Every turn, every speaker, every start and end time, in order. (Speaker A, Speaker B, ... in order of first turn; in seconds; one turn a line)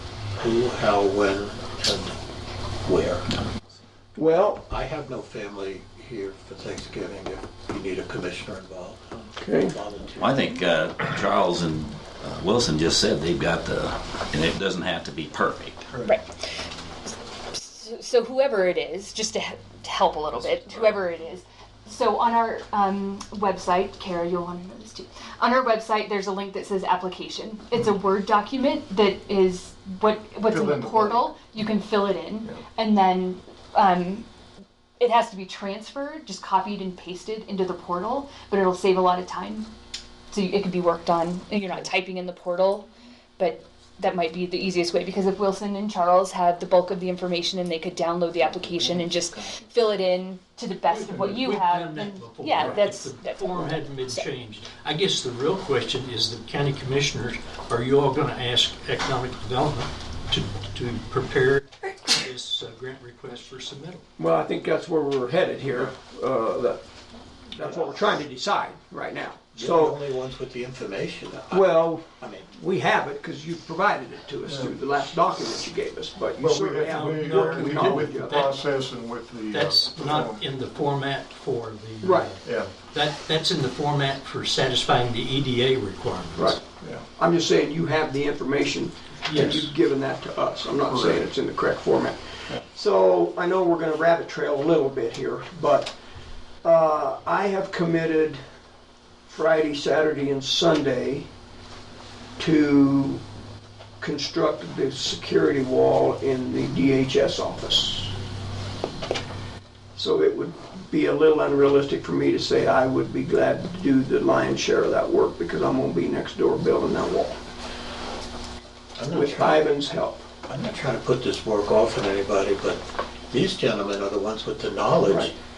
Speaker A: 0.4-2.2
Speaker A: 2.9-3.3
Speaker B: 4.2-4.7
Speaker A: 4.7-10.5
Speaker B: 9.4-9.8
Speaker C: 10.2-15.9
Speaker D: 16.0-16.4
Speaker D: 17.5-34.2
Speaker E: 30.5-31.4
Speaker D: 35.0-39.7
Speaker D: 40.3-54.3
Speaker F: 50.9-64.0
Speaker B: 64.2-66.8
Speaker B: 67.5-70.0
Speaker A: 69.5-72.5
Speaker B: 71.5-78.4
Speaker E: 74.5-74.8
Speaker E: 76.4-80.5
Speaker F: 77.0-78.7
Speaker F: 79.5-86.6
Speaker B: 82.0-82.4
Speaker E: 82.4-82.7
Speaker B: 86.3-86.6
Speaker E: 86.8-87.1
Speaker B: 87.1-96.0
Speaker F: 89.2-89.7
Speaker E: 90.9-91.2
Speaker B: 96.6-98.4
Speaker B: 99.3-101.3
Speaker B: 102.4-103.2
Speaker B: 104.0-108.1
Speaker B: 110.0-117.4
Speaker A: 119.0-119.7
Speaker B: 119.1-120.3
Speaker A: 120.5-125.3
Speaker B: 125.0-125.3